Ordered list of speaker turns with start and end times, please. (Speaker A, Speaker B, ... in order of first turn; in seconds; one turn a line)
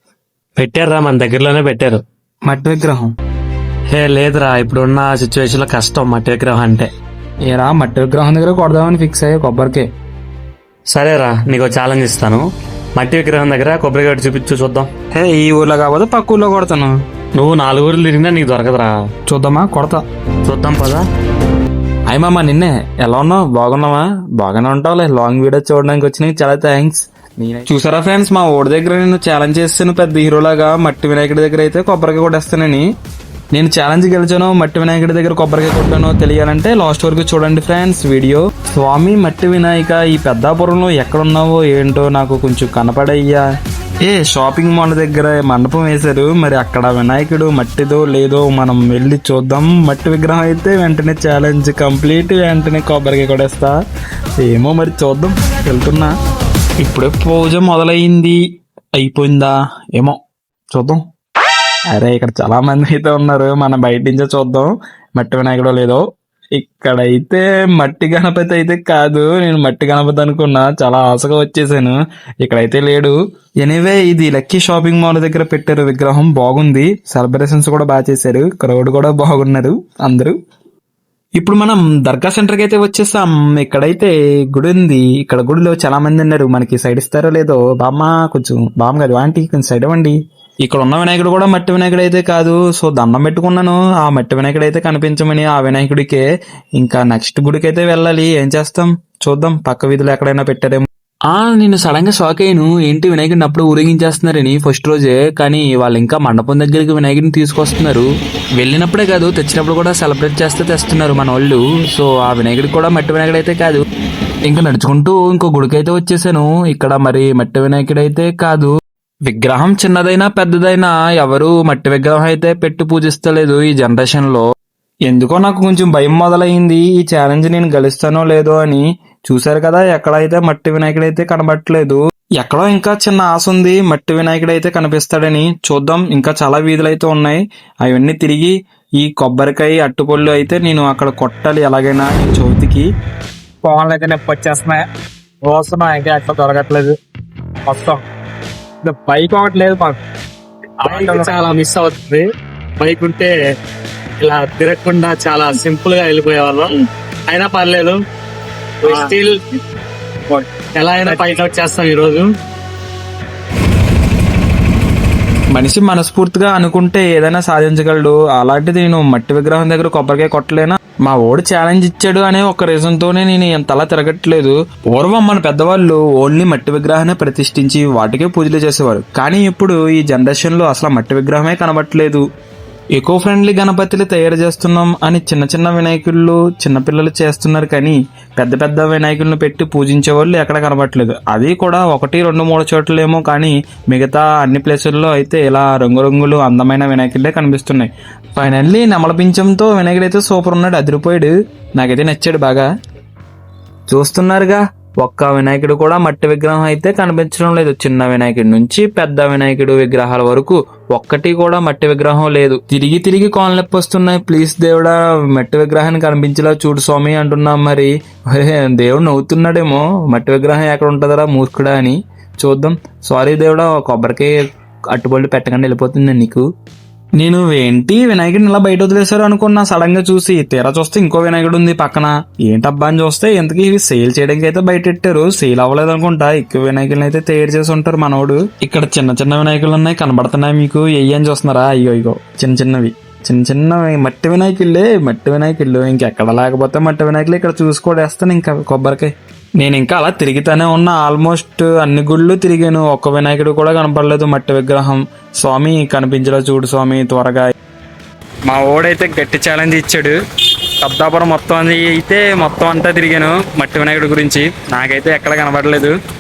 Speaker A: 0.6-2.0
Speaker B: 2.5-3.1
Speaker A: 3.9-6.9
Speaker B: 7.5-9.9
Speaker A: 10.9-12.5
Speaker A: 13.0-14.9
Speaker B: 15.1-16.9
Speaker A: 17.4-19.1
Speaker B: 19.3-20.0
Speaker A: 20.4-21.1
Speaker B: 22.1-32.9
Speaker B: 33.5-43.5
Speaker B: 44.0-53.8
Speaker B: 54.4-56.1
Speaker B: 56.8-58.4
Speaker B: 59.0-60.2
Speaker B: 60.7-61.0
Speaker B: 61.9-66.0
Speaker B: 66.6-80.4
Speaker B: 81.4-96.2
Speaker B: 96.8-113.8
Speaker B: 114.5-118.7
Speaker B: 119.3-124.4
Speaker B: 125.1-142.9
Speaker C: 143.6-144.8
Speaker C: 145.4-147.0
Speaker C: 147.7-148.0
Speaker C: 148.8-150.0
Speaker C: 150.8-152.3
Speaker C: 152.8-153.3
Speaker C: 154.2-156.8
Speaker C: 157.3-158.0
Speaker C: 158.8-159.4
Speaker C: 160.3-162.3
Speaker B: 165.5-182.2
Speaker B: 183.0-202.7
Speaker B: 203.9-224.4
Speaker B: 224.9-226.4
Speaker B: 227.2-257.5
Speaker B: 258.5-260.2
Speaker B: 260.8-265.9